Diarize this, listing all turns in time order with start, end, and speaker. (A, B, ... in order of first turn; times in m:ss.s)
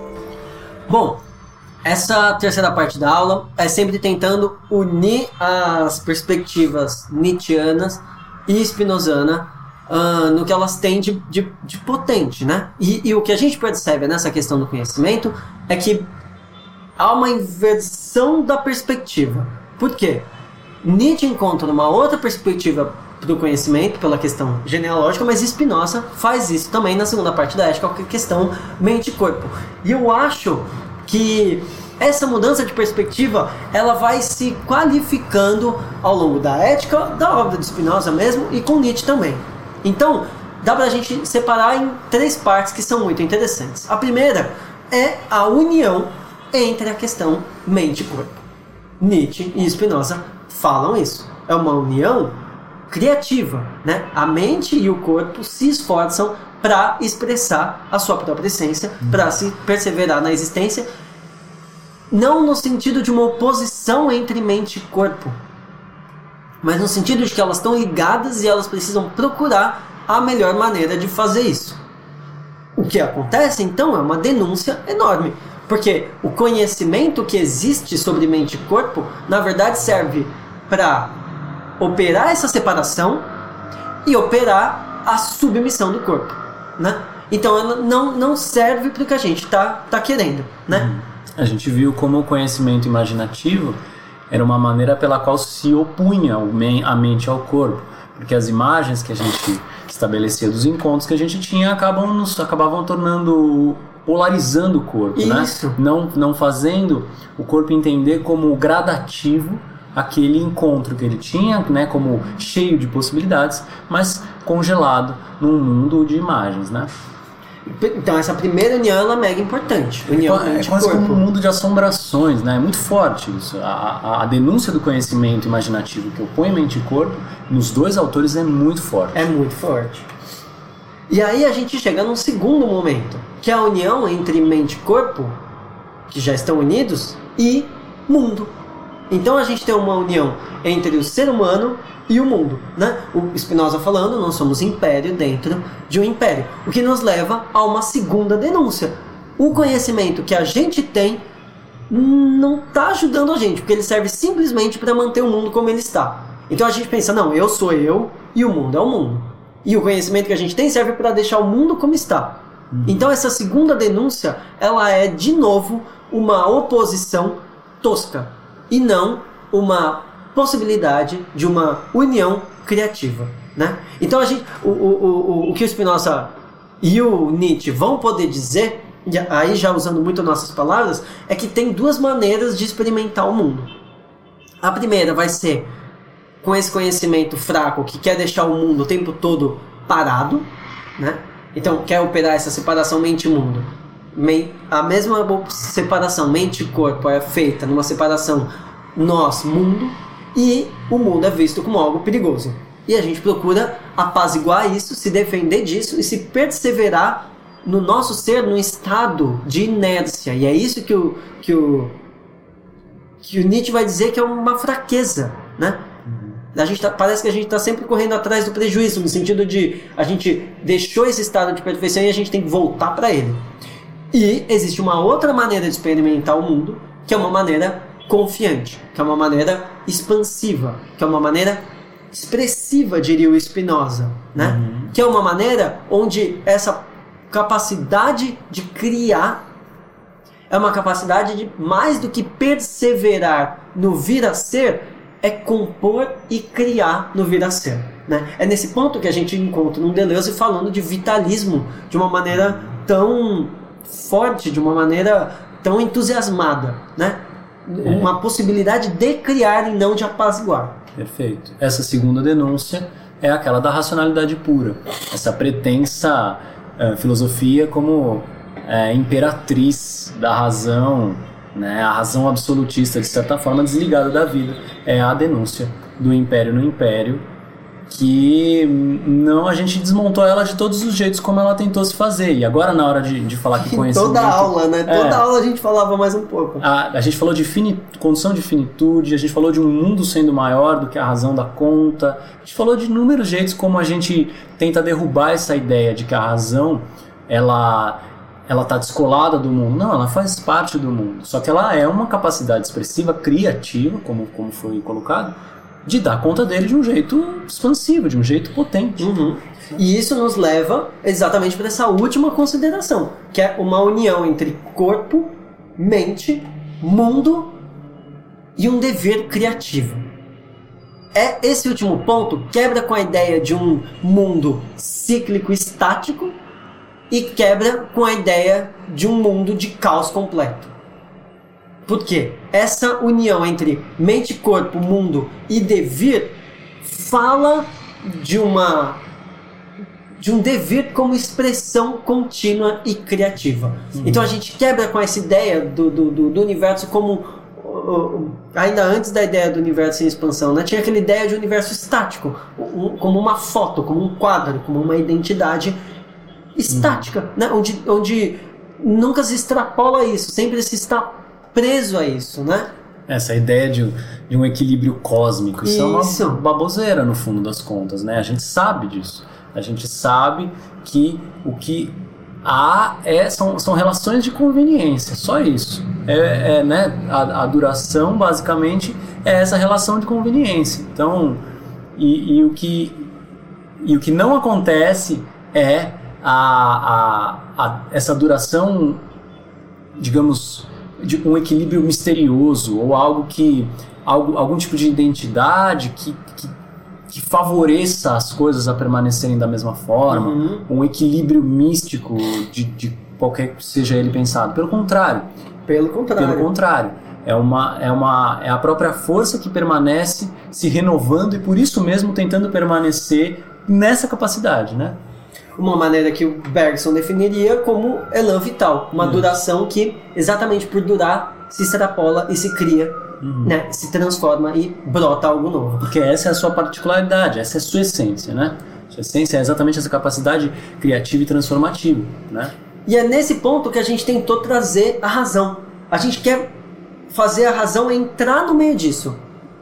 0:00.9-0:01.2 A
0:01.8-0:16.1 A
0:17.0-0:20.3 A
0:20.8-0:48.4 A
0:49.0-0:52.3 A
0:52.9-1:00.9 A
1:02.1-1:05.4 A
1:06.6-1:11.8 A
1:12.8-1:21.2 A
1:21.8-1:23.3 A
1:24.0-1:30.9 A
1:30.7-1:33.8 B
1:34.3-1:56.9 B
1:45.2-1:45.8 A
1:57.6-2:01.2 A
2:00.1-2:09.3 B
2:09.1-2:10.1 A
2:11.1-2:15.4 A
2:16.1-2:18.5 A
2:19.1-2:31.2 A
2:31.9-3:03.7 A
2:42.7-2:43.0 B
3:04.6-3:05.7 A
3:06.4-3:32.0 A
3:33.2-3:35.8 A
3:36.1-3:36.4 B
3:36.5-3:43.4 A
3:44.1-3:59.4 A
3:54.4-3:54.9 B
4:00.5-4:20.8 A
4:17.8-4:18.1 B
4:21.0-4:37.2 B
4:37.9-4:45.2 B
4:43.6-4:46.6 A
4:46.6-5:09.1 B
5:09.0-5:17.5 A
5:18.6-5:20.0 A
5:21.1-5:26.4 A
5:27.1-5:30.7 A
5:31.8-5:39.0 A
5:40.2-5:55.8 A
5:43.9-5:44.2 B
5:56.6-6:02.7 A
5:56.7-5:57.1 B
6:03.1-6:21.4 B
6:05.6-6:06.4 A
6:22.0-6:23.1 B
6:23.8-6:29.0 B
6:30.0-6:36.5 B
6:37.1-6:45.3 B
6:40.1-6:40.7 A
6:45.7-6:46.5 A
6:46.2-6:55.0 B
6:55.6-7:05.9 A
6:59.0-6:59.3 B
7:03.2-7:03.5 B
7:05.8-7:12.5 B
7:12.8-7:16.5 A
7:17.1-7:19.2 A